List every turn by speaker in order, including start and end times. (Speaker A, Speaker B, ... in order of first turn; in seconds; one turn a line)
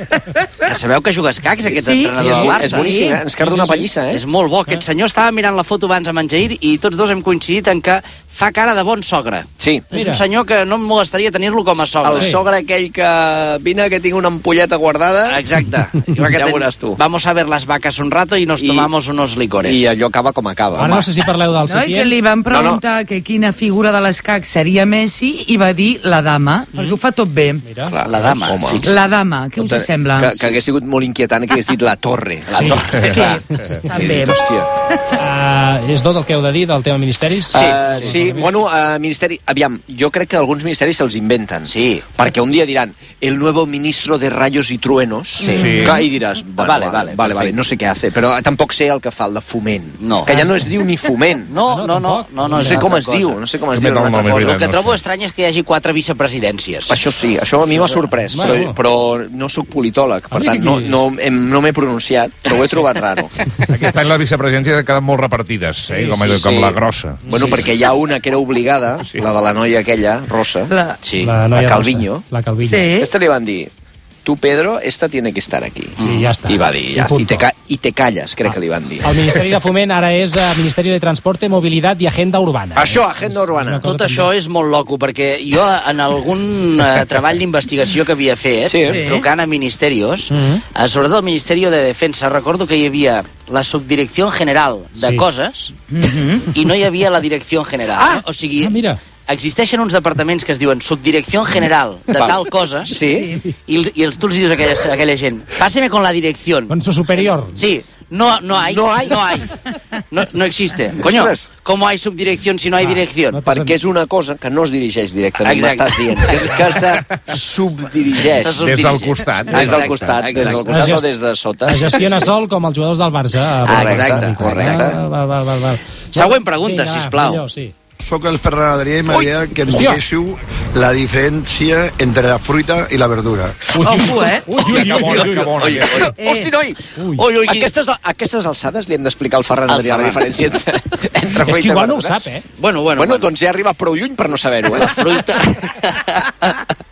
Speaker A: 0.6-2.9
Speaker B: 1.6-3.2
Speaker C: 2.1-4.2
Speaker D: 3.4-3.9
Speaker A: 4.1-12.3
Speaker C: 9.6-9.8
Speaker D: 9.9-10.2
Speaker C: 11.8-15.4
Speaker D: 12.1-12.4
Speaker A: 15.3-19.9
Speaker C: 16.1-17.0
Speaker C: 18.6-18.9
Speaker C: 19.6-21.0
Speaker D: 20.8-22.2
Speaker B: 21.6-27.6
Speaker C: 22.5-22.8
Speaker D: 27.6-27.9
Speaker C: 27.8-28.9
Speaker A: 28.0-28.9
Speaker B: 28.8-30.5
Speaker C: 29.6-34.7
Speaker D: 32.5-32.9
Speaker A: 32.5-33.4
Speaker B: 33.1-34.4
Speaker D: 35.1-38.6
Speaker C: 37.5-51.5
Speaker A: 37.5-38.3
Speaker A: 41.7-42.0
Speaker E: 45.4-46.0
Speaker B: 45.5-45.9
Speaker A: 46.6-47.6
Speaker A: 50.0-50.3
Speaker D: 50.3-50.8
Speaker A: 51.5-53.4
Speaker D: 51.6-52.9
Speaker C: 52.6-54.6
Speaker E: 53.7-55.0
Speaker A: 54.2-57.0
Speaker C: 56.9-63.3
Speaker A: 57.7-58.6
Speaker D: 58.3-58.7
Speaker D: 60.3-61.0
Speaker E: 63.7-67.7
Speaker D: 65.9-66.3
Speaker C: 66.3-66.8
Speaker C: 67.3-70.7
Speaker A: 67.3-67.7
Speaker B: 70.7-71.0
Speaker A: 71.0-71.3
Speaker D: 71.1-72.9
Speaker C: 71.5-72.2
Speaker B: 72.6-73.1
Speaker C: 73.0-73.7
Speaker C: 74.2-79.2
Speaker A: 76.0-76.3
Speaker D: 76.0-77.4
Speaker D: 78.5-84.3
Speaker C: 82.7-83.9
Speaker A: 83.8-95.7
Speaker C: 88.6-89.0
Speaker B: 88.9-89.2
Speaker D: 90.3-90.6
Speaker D: 95.0-95.2
Speaker B: 95.9-96.5
Speaker A: 96.5-98.7
Speaker C: 97.9-98.2
Speaker D: 98.6-99.0
Speaker A: 99.3-103.0
Speaker C: 102.1-103.3
Speaker B: 103.1-103.4
Speaker A: 103.7-113.4
Speaker D: 106.7-107.5
Speaker C: 108.5-109.3
Speaker C: 111.0-111.5
Speaker D: 112.8-113.8
Speaker C: 113.4-118.6
Speaker A: 115.4-116.8
Speaker A: 118.3-120.7
Speaker E: 118.5-120.2
Speaker C: 119.5-122.3
Speaker D: 120.6-121.1
Speaker D: 121.6-127.7
Speaker A: 123.6-124.9
Speaker C: 123.7-125.0
Speaker A: 126.1-127.4
Speaker F: 128.1-133.7
Speaker A: 129.1-129.4
Speaker D: 129.7-130.0
Speaker D: 133.7-135.4
Speaker B: 133.8-134.5
Speaker E: 134.5-136.1
Speaker A: 134.6-137.7
Speaker B: 136.1-136.5
Speaker D: 137.0-137.2
Speaker C: 137.5-142.2
Speaker A: 139.7-140.3
Speaker D: 141.4-142.4
Speaker A: 142.6-143.3
Speaker C: 142.9-145.2
Speaker A: 144.7-146.6